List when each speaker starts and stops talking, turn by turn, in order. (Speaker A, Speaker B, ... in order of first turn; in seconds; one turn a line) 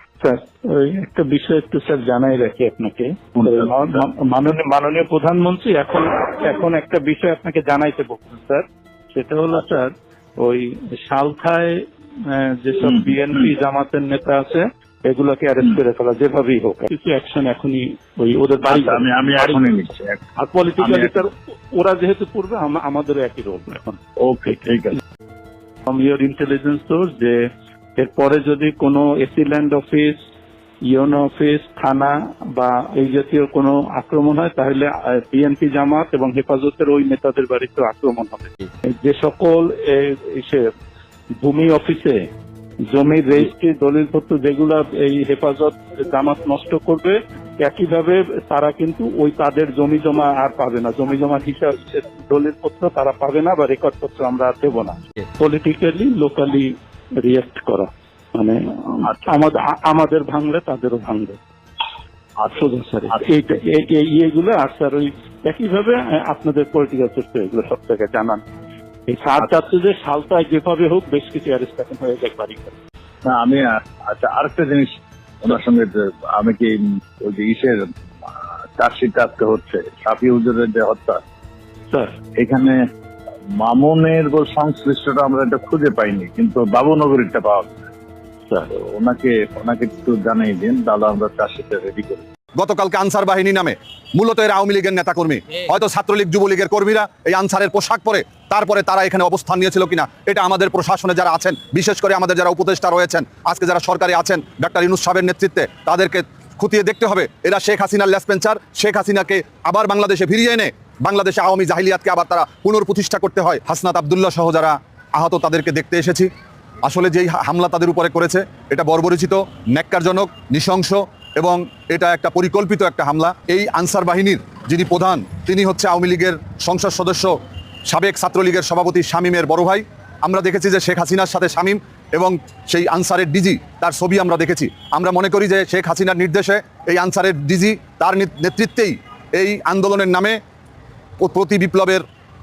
Speaker A: 0.2-19.7
Speaker B: 3.4-3.7
Speaker B: 12.8-13.4
Speaker B: 18.7-20.2
Speaker A: 20.4-24.0
Speaker B: 20.8-21.2
Speaker B: 24.2-25.0
Speaker A: 25.9-27.4
Speaker A: 28.0-30.2
Speaker A: 30.9-40.7
Speaker A: 41.4-42.2
Speaker A: 42.9-61.4
Speaker A: 62.4-68.4
Speaker A: 69.1-72.8
Speaker B: 73.2-77.9
Speaker B: 78.8-81.2
Speaker A: 81.9-82.2
Speaker B: 82.4-82.8
Speaker B: 83.6-87.8
Speaker B: 88.7-92.2
Speaker C: 92.5-116.3
Speaker C: 116.8-140.4
Speaker C: 141.2-142.0